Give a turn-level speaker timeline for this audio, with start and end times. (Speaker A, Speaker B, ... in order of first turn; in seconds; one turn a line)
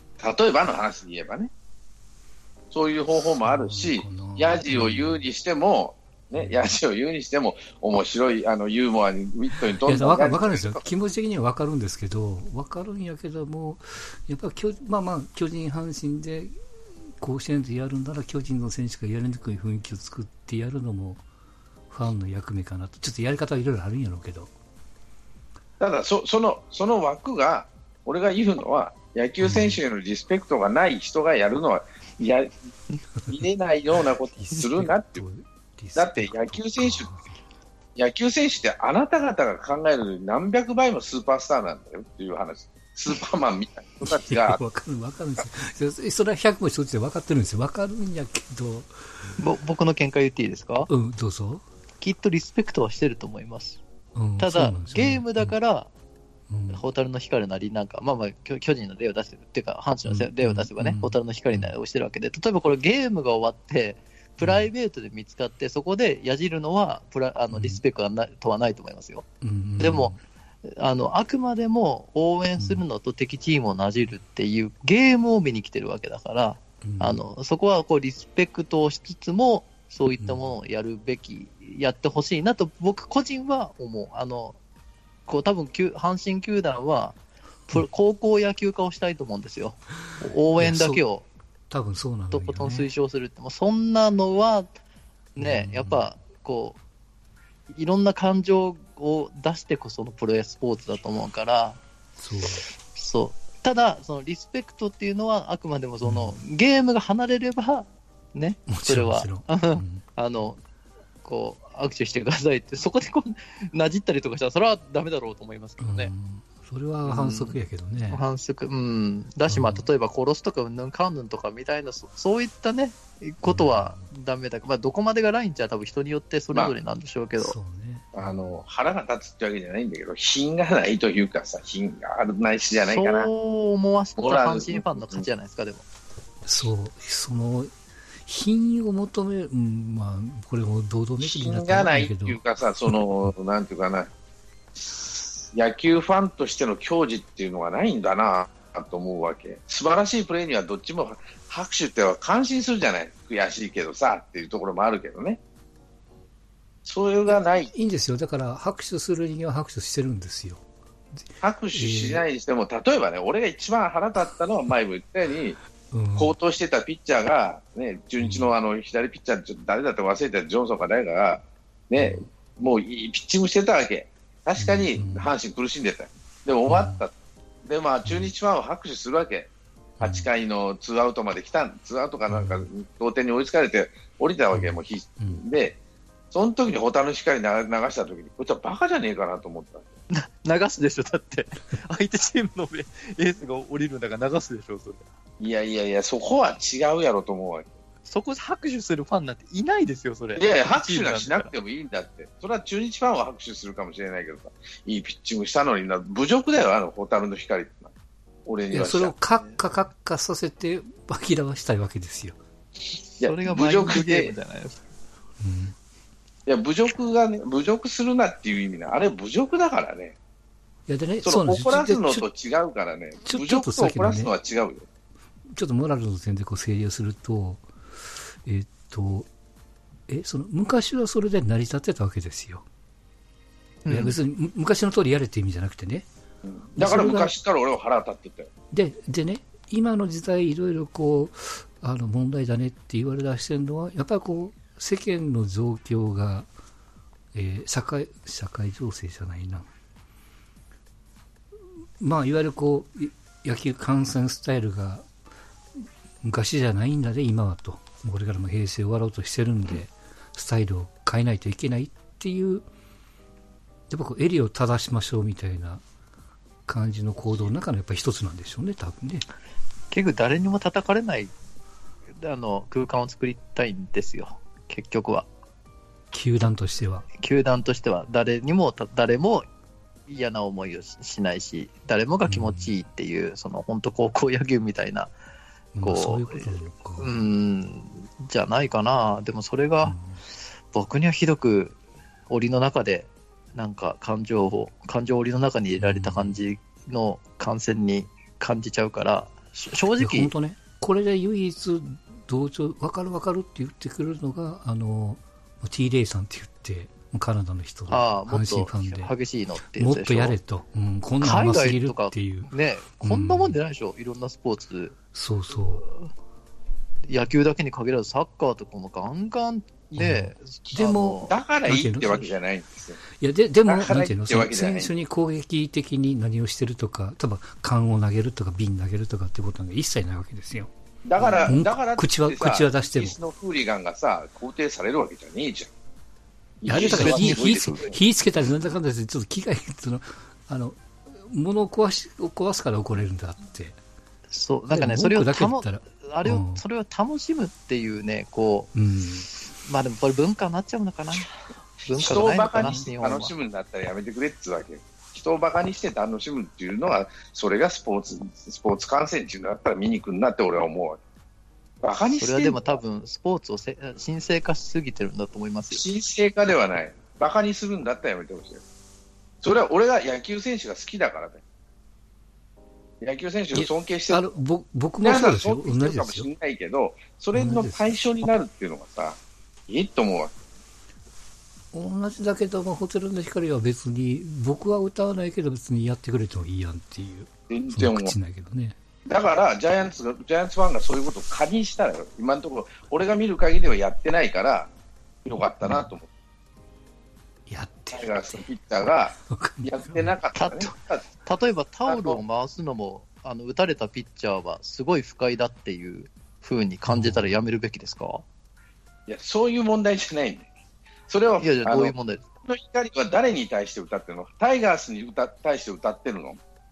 Speaker A: 0.2-1.5
Speaker A: 2.7-10.8
Speaker B: 3.4-5.3
Speaker B: 6.3-6.8
Speaker B: 9.8-16.6
Speaker B: 17.1-21.2
Speaker B: 21.9-24.5
Speaker A: 25.8-32.6
Speaker B: 29.4-29.8
Speaker A: 33.2-35.2
Speaker B: 34.4-37.4
Speaker A: 36.0-37.1
Speaker A: 38.0-44.6
Speaker B: 44.0-49.4
Speaker C: 49.4-50.9
Speaker B: 50.9-51.6
Speaker C: 52.0-53.8
Speaker B: 54.1-55.6
Speaker C: 54.4-55.9
Speaker B: 56.5-56.8
Speaker C: 56.7-69.3
Speaker B: 60.1-61.8
Speaker B: 64.4-64.7
Speaker B: 67.5-67.8
Speaker B: 69.4-70.2
Speaker C: 69.8-70.1
Speaker C: 70.6-84.6
Speaker B: 72.6-72.8
Speaker B: 76.8-77.2
Speaker B: 80.2-80.5
Speaker C: 85.3-91.3
Speaker B: 90.6-91.0
Speaker B: 91.7-92.9
Speaker C: 92.3-94.7
Speaker B: 95.4-96.1
Speaker C: 95.4-96.8
Speaker C: 97.7-101.8
Speaker B: 102.2-102.7
Speaker C: 102.8-110.6
Speaker B: 106.0-106.4
Speaker B: 108.7-110.0
Speaker C: 111.2-116.1
Speaker B: 115.8-118.2
Speaker C: 117.0-117.6
Speaker C: 118.1-127.6
Speaker B: 119.5-119.9
Speaker B: 123.4-124.1
Speaker B: 127.4-128.3
Speaker A: 128.1-133.3
Speaker C: 132.8-135.8
Speaker A: 134.2-135.3
Speaker B: 136.5-137.8
Speaker B: 138.3-143.0
Speaker A: 141.2-144.1
Speaker A: 144.9-155.4
Speaker A: 156.8-157.7
Speaker B: 157.3-160.6
Speaker B: 161.2-162.2
Speaker A: 161.4-165.6
Speaker B: 165.9-166.4
Speaker A: 166.2-177.1
Speaker B: 168.2-168.5
Speaker B: 172.0-172.3
Speaker B: 174.6-175.3
Speaker B: 176.7-177.0
Speaker A: 177.7-185.8
Speaker B: 178.1-178.3
Speaker B: 180.0-180.3
Speaker B: 182.3-182.7
Speaker B: 184.5-185.4
Speaker A: 186.3-189.9
Speaker C: 190.1-195.1
Speaker A: 195.4-197.8
Speaker C: 198.1-201.5
Speaker A: 200.4-207.9
Speaker A: 208.5-209.1
Speaker B: 208.7-212.4
Speaker A: 213.2-214.3
Speaker C: 213.2-214.8
Speaker B: 215.4-215.8
Speaker A: 216.5-220.2
Speaker B: 220.9-222.3
Speaker A: 221.2-224.9
Speaker B: 223.2-224.3
Speaker B: 225.5-227.7
Speaker B: 228.4-229.3
Speaker B: 230.1-232.7
Speaker C: 233.8-234.2
Speaker B: 233.9-236.1
Speaker A: 236.4-238.5
Speaker B: 236.8-237.3
Speaker B: 238.7-246.5
Speaker B: 247.3-249.7
Speaker B: 252.0-255.1
Speaker B: 255.8-262.7
Speaker B: 263.9-265.8
Speaker B: 266.7-269.2
Speaker C: 269.9-271.3
Speaker C: 272.2-275.3
Speaker B: 276.1-277.1
Speaker C: 277.2-279.5
Speaker C: 280.1-285.1
Speaker B: 282.3-282.7
Speaker B: 285.8-287.2
Speaker C: 285.8-290.0
Speaker B: 289.8-290.2
Speaker C: 290.7-291.8
Speaker C: 292.3-300.3
Speaker B: 295.8-296.4
Speaker B: 300.0-309.1
Speaker C: 307.9-310.4
Speaker B: 309.7-313.6
Speaker C: 311.2-315.0
Speaker B: 315.1-315.9
Speaker C: 317.0-321.4
Speaker B: 320.0-322.3
Speaker A: 321.3-323.0
Speaker B: 323.2-330.7
Speaker A: 323.7-324.9
Speaker A: 331.1-335.7
Speaker B: 331.2-333.2
Speaker A: 336.6-337.9
Speaker B: 336.7-343.8
Speaker C: 336.7-338.0
Speaker C: 344.3-348.7
Speaker B: 344.7-346.6
Speaker B: 348.7-349.3
Speaker C: 349.6-351.3
Speaker C: 351.9-353.3
Speaker A: 351.9-361.0
Speaker A: 361.8-362.6
Speaker C: 362.2-365.8
Speaker A: 365.7-368.6
Speaker A: 369.4-371.4
Speaker A: 373.0-374.2
Speaker B: 373.5-376.3
Speaker A: 375.0-380.3
Speaker B: 377.3-378.0
Speaker B: 381.7-388.8
Speaker A: 387.5-388.1
Speaker A: 389.1-394.7
Speaker A: 395.3-396.1
Speaker B: 397.5-398.5
Speaker A: 397.9-401.1
Speaker B: 399.3-400.1
Speaker C: 400.4-400.7
Speaker C: 401.2-408.2
Speaker A: 401.9-402.2
Speaker B: 406.9-407.3
Speaker A: 409.1-410.5
Speaker A: 411.1-411.9
Speaker C: 411.4-412.3
Speaker A: 412.5-416.4